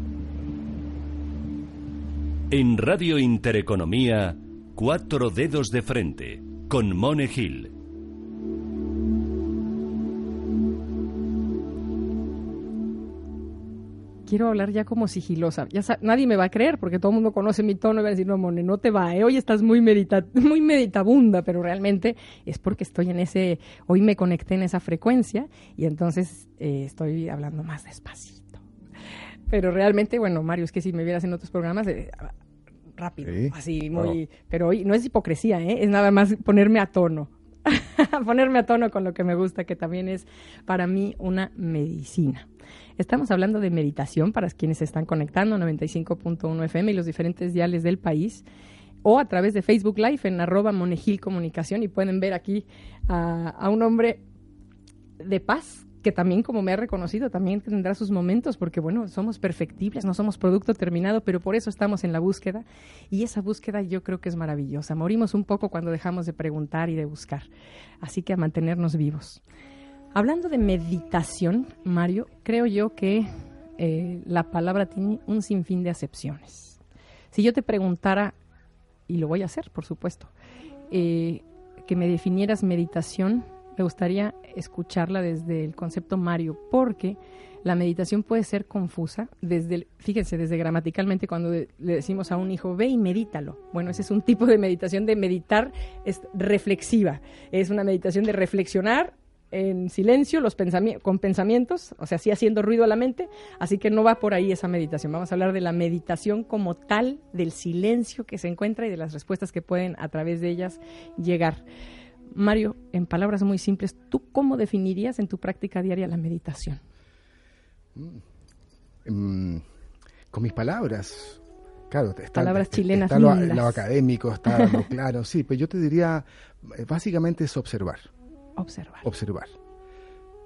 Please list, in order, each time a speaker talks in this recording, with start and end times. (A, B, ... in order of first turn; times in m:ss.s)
0:02.5-0:07.7 A
0:14.3-0:28.6 B
0:29.5-0:32.3 B
0:33.0-0:48.4 B
0:33.2-0:34.2 C
0:49.0-0:54.2 B
0:55.2-1:07.5 B
1:08.0-1:09.4 B
1:10.1-1:16.8 B
1:17.3-1:18.4 B
1:19.1-1:20.3 B
1:20.9-1:51.6 B
1:52.3-1:56.8 B
1:58.0-1:58.2 C
1:59.0-1:59.6 C
2:00.3-2:08.1 C
2:02.4-2:03.8 B
2:04.5-2:04.8 B
2:08.6-2:09.0 B
2:09.0-2:09.6 C